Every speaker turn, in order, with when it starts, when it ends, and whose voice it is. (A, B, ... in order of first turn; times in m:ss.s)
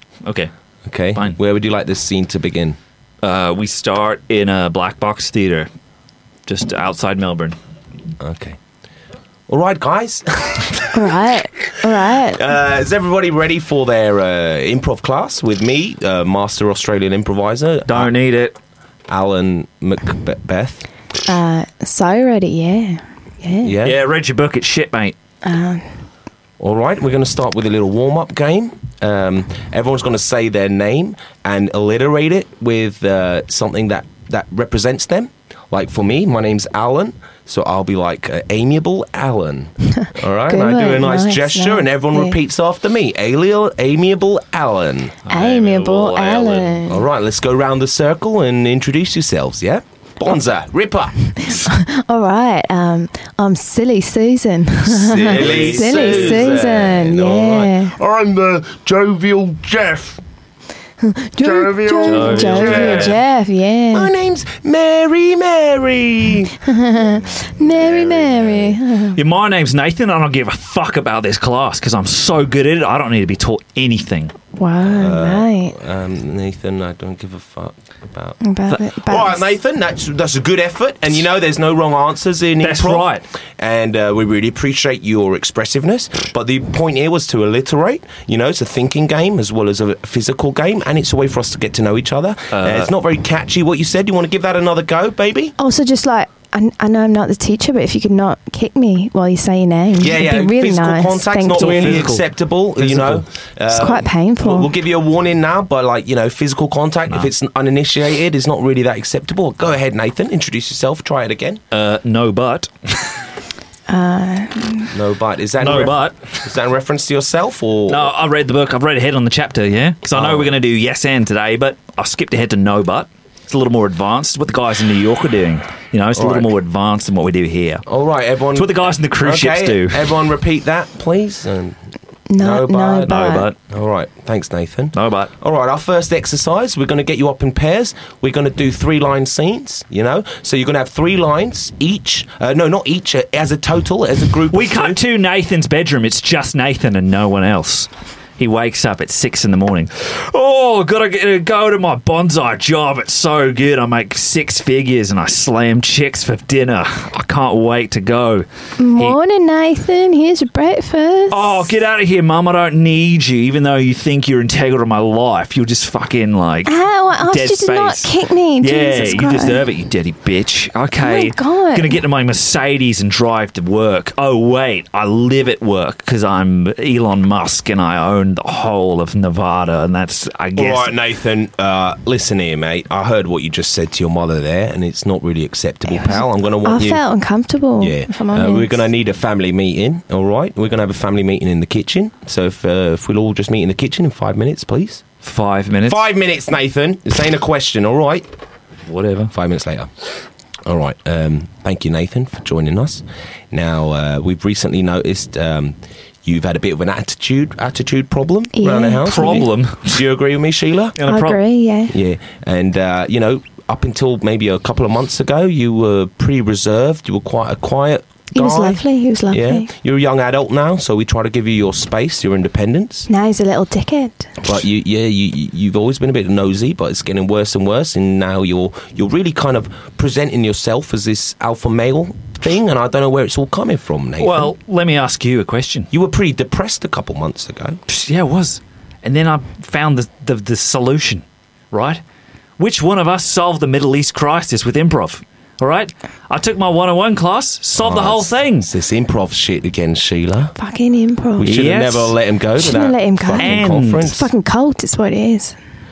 0:00.2-0:00.5 A
0:00.8-0:02.8 B
0:03.2-0:05.7 A
0:06.5-0:07.6 A
0:08.2-0:08.6 B
0:09.5-0:11.1 B
0:10.9-0:12.4 C
0:11.9-0:18.1 B
0:17.9-0:18.6 A
0:19.1-0:20.8 B
0:21.3-0:23.8 C
0:23.6-0:24.0 B
0:23.8-0:25.2 A
0:25.4-0:25.9 C
0:26.6-0:45.2 B
0:40.0-0:42.4 C
0:45.3-0:46.8 A
0:45.3-0:47.0 C
0:46.9-0:51.3 B
0:51.4-0:57.9 C
0:54.9-1:00.2 B
0:55.2-0:56.6 A
1:01.0-1:04.1 C
1:01.4-1:03.2 B
1:02.0-1:03.2 A
1:03.9-1:06.6 B
1:06.7-1:09.2 C
1:07.3-1:14.3 A
1:14.6-1:15.8 C
1:14.8-1:18.4 B
1:18.4-1:19.4 C
1:19.0-1:35.5 B
1:22.6-1:23.2 A
1:32.5-1:32.9 A
1:35.6-1:41.9 C
1:40.0-1:51.6 B
1:41.6-1:43.3 A
1:43.7-1:44.7 C
1:51.7-1:53.2 A
1:53.9-1:54.9 C
1:54.9-1:58.1 B
1:55.6-1:56.4 A
1:57.9-2:07.8 A
2:00.1-2:00.5 B
2:06.2-2:06.5 B
2:07.9-2:11.8 B
2:08.6-2:10.1 A
2:12.3-2:13.5 C
2:12.4-2:25.0 B
2:13.1-2:13.6 A
2:15.0-2:15.3 A
2:24.5-2:39.2 A
2:38.8-2:41.7 C
2:41.3-3:00.9 A
2:46.7-2:49.6 C
2:51.0-2:52.0 C
3:00.6-3:07.0 B
3:05.9-3:08.8 C
3:07.8-3:15.0 B
3:15.2-3:16.0 A
3:15.9-3:18.3 B
3:18.9-3:19.3 A
3:19.3-3:19.9 B
3:20.6-3:31.0 B
3:28.6-3:29.4 C
3:29.0-3:30.0 A
3:31.0-3:31.4 A
3:31.1-3:31.9 C
3:31.9-3:43.1 B
3:38.3-3:39.7 C
3:43.1-3:44.3 C
3:44.4-3:54.5 B
3:54.2-3:55.9 A
3:55.9-3:57.8 B
3:57.9-4:02.0 A
4:02.6-4:08.7 A
4:07.8-4:10.6 B
4:10.6-4:11.5 C
4:11.4-4:14.2 B
4:11.4-4:12.2 A
4:12.6-4:15.6 C
4:13.4-4:14.2 A